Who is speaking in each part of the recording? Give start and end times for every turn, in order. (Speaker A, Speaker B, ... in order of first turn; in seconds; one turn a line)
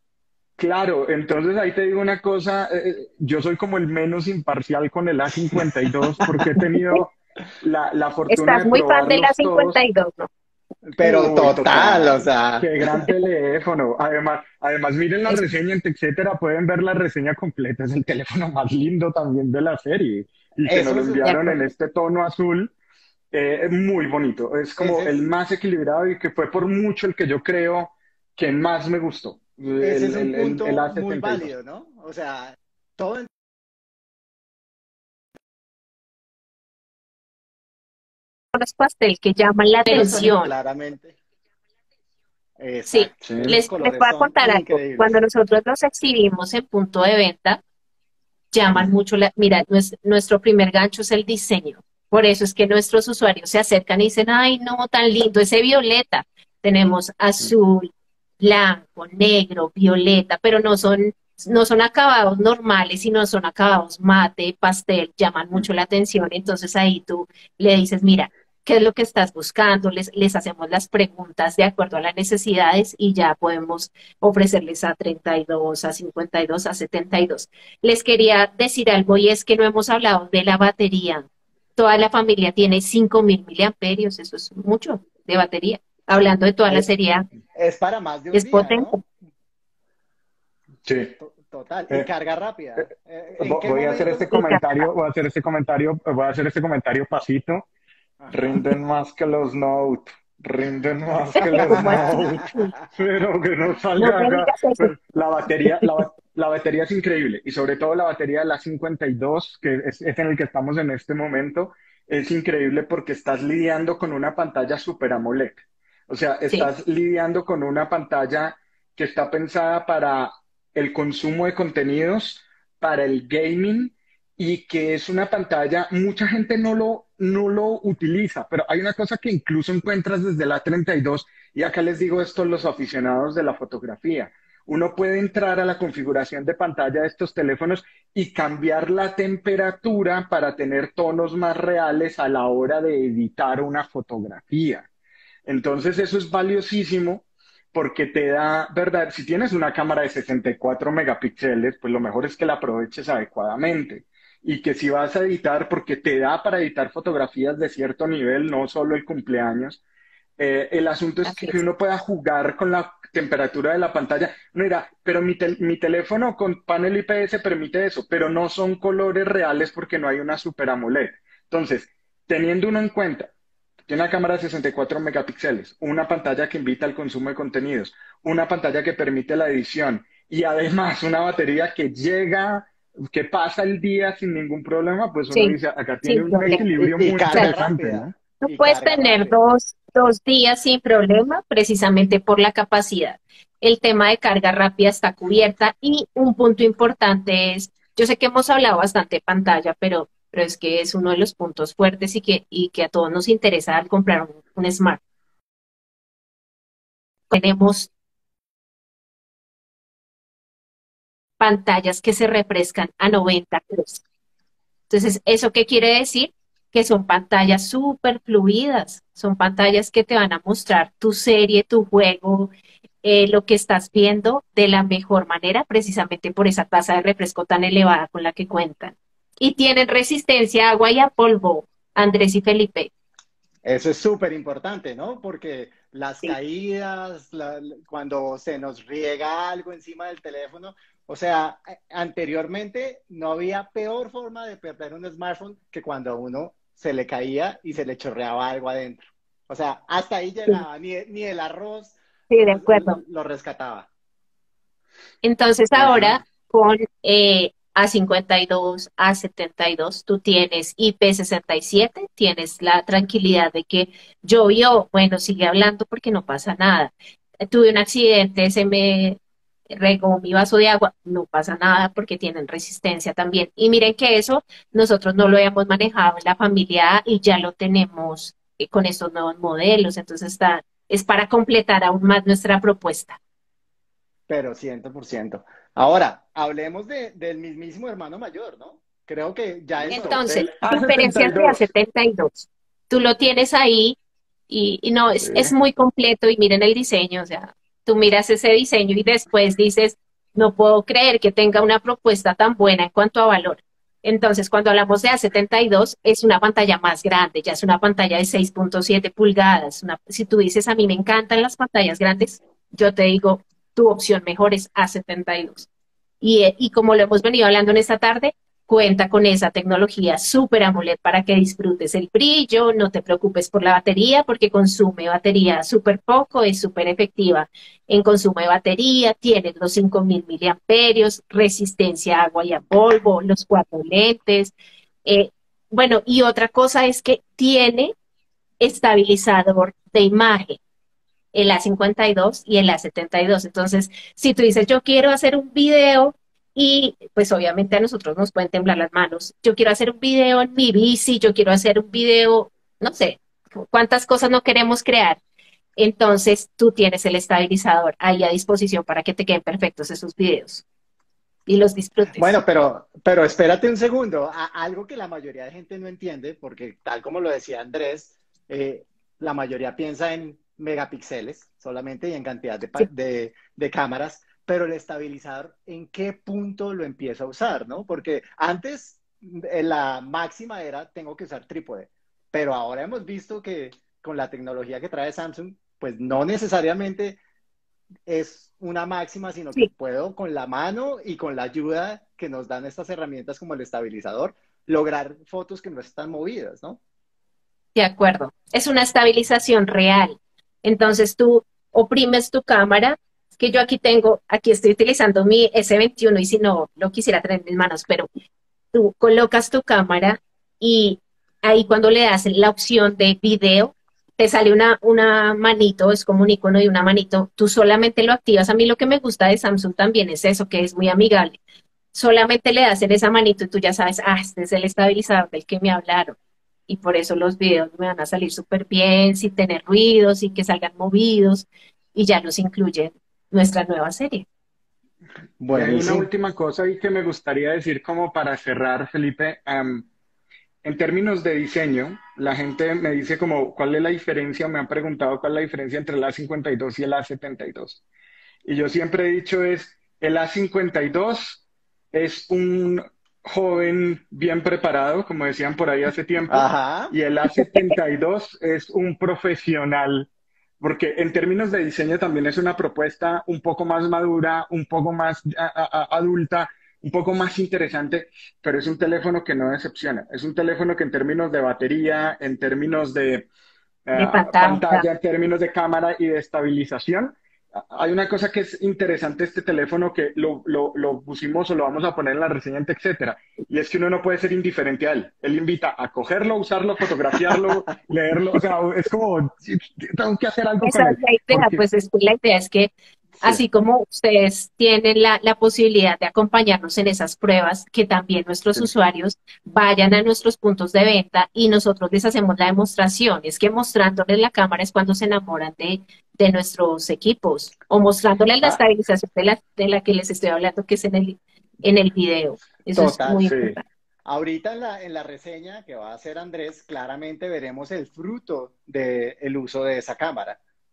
Speaker A: 0.6-9.8
Speaker B: 6.2-6.5
Speaker C: 8.3-10.3
Speaker B: 10.9-13.1
Speaker A: 11.0-22.7
Speaker B: 20.7-21.6
Speaker C: 21.2-21.6
Speaker A: 23.3-31.5
Speaker B: 24.8-25.2
Speaker B: 29.8-33.3
Speaker C: 38.5-40.5
Speaker B: 39.9-41.2
Speaker B: 42.6-45.2
Speaker C: 42.9-47.6
Speaker A: 43.2-43.6
Speaker C: 48.5-87.3
Speaker B: 87.5-89.0
Speaker C: 88.3-89.0
Speaker A: 90.8-91.2
Speaker B: 91.2-94.3
Speaker A: 92.8-97.7
Speaker C: 94.3-94.9
Speaker A: 98.3-144.9
Speaker C: 101.4-102.7
Speaker B: 101.6-102.4
Speaker C: 104.0-104.9
Speaker A: 145.5-159.8
Speaker A: 160.4-173.3
Speaker C: 161.2-161.6
Speaker A: 173.9-188.1
Speaker C: 185.3-186.6
Speaker B: 186.5-189.4
Speaker C: 188.4-205.0
Speaker C: 207.3-207.9
Speaker C: 211.4-214.0
Speaker C: 214.9-222.5
Speaker C: 223.0-232.9
Speaker B: 233.6-253.9
Speaker C: 252.3-253.0
Speaker C: 255.2-266.9
Speaker A: 255.8-256.2
Speaker C: 267.4-269.2
Speaker C: 269.7-283.2
Speaker B: 284.3-290.3
Speaker C: 289.9-294.0
Speaker A: 290.2-291.7
Speaker C: 294.5-315.7
Speaker A: 295.2-295.5
Speaker C: 316.2-334.5
Speaker C: 335.1-337.9
Speaker C: 338.6-340.6
Speaker C: 341.3-355.2
Speaker C: 355.8-360.6
Speaker C: 361.5-362.4
Speaker B: 362.1-387.2
Speaker B: 388.1-396.8
Speaker C: 397.8-408.1
Speaker C: 408.7-421.4
Speaker C: 421.9-426.2
Speaker C: 426.7-434.3
Speaker B: 435.4-436.1
Speaker A: 435.5-439.9
Speaker A: 440.6-447.8
Speaker A: 448.4-460.1
Speaker B: 456.3-456.9
Speaker C: 457.4-457.7
Speaker A: 460.6-473.3
Speaker A: 473.9-491.6
Speaker C: 473.9-474.9
Speaker B: 487.1-487.6
Speaker C: 490.6-513.6
Speaker B: 512.8-513.3
Speaker A: 513.2-513.6
Speaker B: 514.0-520.4